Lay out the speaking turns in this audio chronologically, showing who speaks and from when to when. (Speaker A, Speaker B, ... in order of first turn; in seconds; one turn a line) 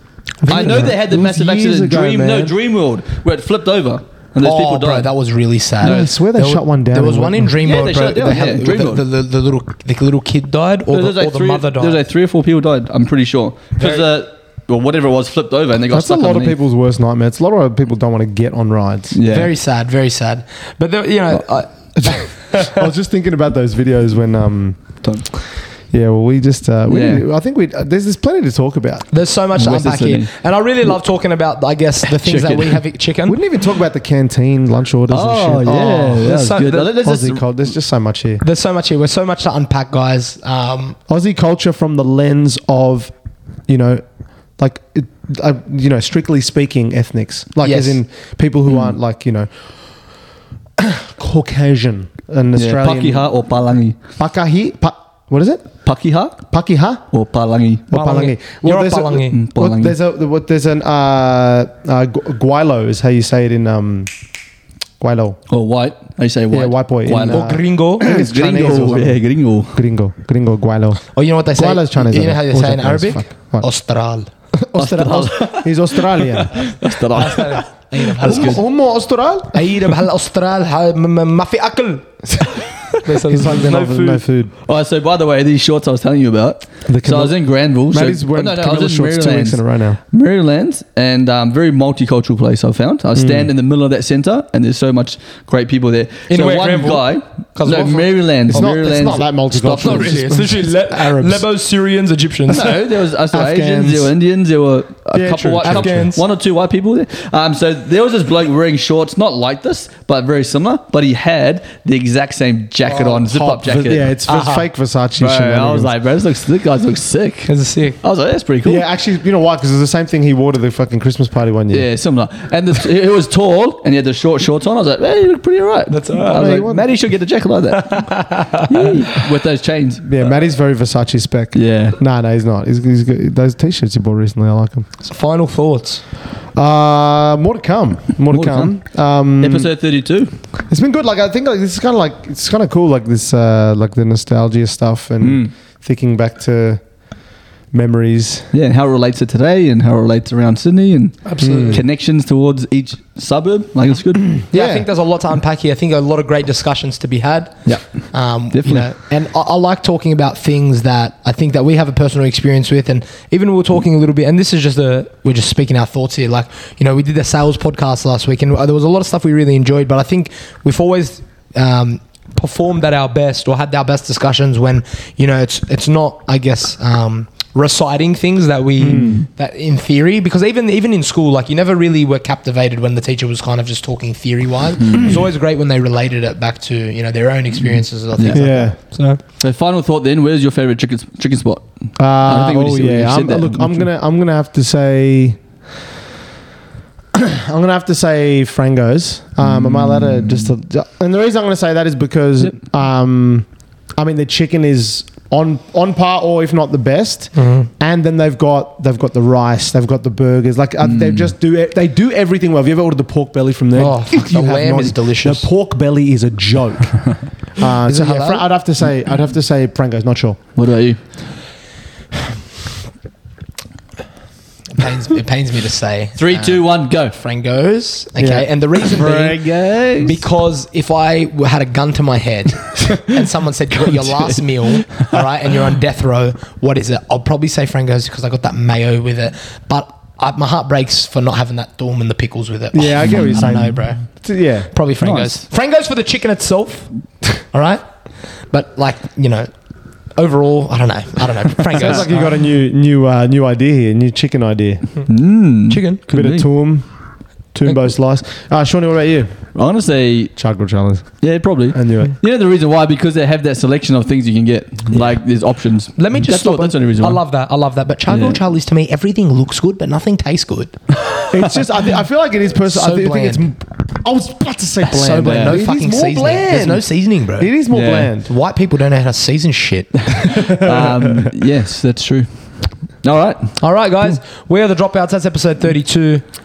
Speaker A: 0.4-2.5
Speaker B: 0.5-5.1
Speaker C: 0.5-0.9
Speaker C: 4.4-12.0
Speaker A: 5.8-7.5
Speaker B: 7.6-9.0
Speaker B: 10.9-16.6
Speaker C: 13.8-14.1
Speaker A: 15.9-19.2
Speaker B: 19.1-19.5
Speaker C: 19.2-22.9
Speaker A: 22.0-24.9
Speaker A: 25.9-29.1
Speaker B: 26.9-27.2
Speaker C: 29.1-33.4
Speaker B: 29.5-30.3
Speaker B: 32.2-32.8
Speaker A: 33.2-38.4
Speaker B: 35.1-37.4
Speaker C: 36.1-36.9
Speaker C: 38.4-41.0
Speaker A: 41.1-43.1
Speaker A: 43.7-44.0
Speaker A: 44.6-49.5
Speaker C: 47.6-48.0
Speaker B: 48.7-48.9
Speaker A: 50.8-53.3
Speaker B: 52.5-54.0
Speaker A: 54.2-55.7
Speaker B: 55.8-56.4
Speaker A: 56.5-57.0
Speaker B: 57.1-57.9
Speaker A: 57.9-64.1
Speaker C: 57.9-59.4
Speaker B: 59.3-59.9
Speaker A: 65.0-65.4
Speaker B: 65.5-69.8
Speaker A: 66.5-69.2
Speaker C: 67.3-69.0
Speaker A: 69.7-73.7
Speaker C: 71.1-74.3
Speaker A: 74.6-76.6
Speaker B: 74.7-78.6
Speaker C: 77.1-78.7
Speaker A: 78.2-79.8
Speaker C: 79.5-84.2
Speaker A: 83.2-84.5
Speaker B: 84.6-100.2
Speaker A: 86.8-90.0
Speaker A: 93.2-93.5
Speaker C: 96.3-98.6
Speaker A: 98.5-101.5
Speaker C: 99.8-102.8
Speaker B: 102.5-114.5
Speaker A: 103.3-104.1
Speaker A: 105.1-106.1
Speaker C: 105.6-106.2
Speaker A: 112.8-115.9
Speaker C: 114.3-114.6
Speaker B: 115.2-118.8
Speaker C: 117.5-118.0
Speaker A: 118.6-121.8
Speaker B: 121.7-130.4
Speaker C: 125.9-126.6
Speaker A: 126.2-126.9
Speaker C: 127.8-128.7
Speaker A: 130.0-134.8
Speaker B: 131.5-132.0
Speaker C: 135.0-136.0
Speaker A: 136.5-139.7
Speaker B: 138.3-138.8
Speaker B: 139.4-140.3
Speaker A: 140.7-146.8
Speaker B: 145.2-145.5
Speaker A: 147.7-148.5
Speaker B: 148.5-154.4
Speaker C: 151.2-151.8
Speaker A: 151.4-151.8
Speaker C: 154.5-189.2
Speaker A: 154.5-154.9
Speaker B: 157.7-157.9
Speaker B: 158.5-158.9
Speaker A: 178.8-179.2
Speaker B: 178.9-179.2
Speaker B: 184.8-185.2
Speaker B: 188.2-188.4
Speaker A: 188.3-188.8
Speaker B: 189.4-193.8
Speaker A: 192.0-195.4
Speaker A: 197.1-203.5
Speaker B: 199.4-200.5
Speaker A: 204.0-220.4
Speaker C: 207.3-207.7
Speaker B: 210.8-211.3
Speaker C: 213.8-215.5
Speaker C: 217.8-218.4
Speaker B: 220.6-221.0
Speaker C: 224.7-244.1
Speaker B: 226.2-227.1
Speaker A: 228.2-228.5
Speaker B: 228.8-230.2
Speaker A: 242.7-244.7
Speaker B: 243.1-243.4
Speaker C: 244.7-247.8
Speaker B: 245.0-245.4
Speaker C: 248.5-249.5
Speaker C: 250.2-252.3
Speaker A: 251.7-254.9
Speaker B: 255.1-256.5
Speaker C: 255.7-256.0
Speaker A: 256.1-256.8
Speaker A: 257.5-259.3
Speaker B: 259.5-260.3
Speaker A: 260.4-261.1
Speaker B: 261.2-267.2
Speaker A: 261.7-262.1
Speaker C: 266.0-270.8
Speaker B: 268.1-268.4
Speaker A: 271.3-276.8
Speaker C: 272.6-273.4
Speaker C: 274.8-277.5
Speaker B: 275.2-275.6
Speaker A: 277.4-278.3
Speaker B: 277.7-278.1
Speaker C: 278.2-280.6
Speaker B: 280.3-282.3
Speaker A: 280.5-281.3
Speaker B: 283.0-284.1
Speaker C: 283.6-286.2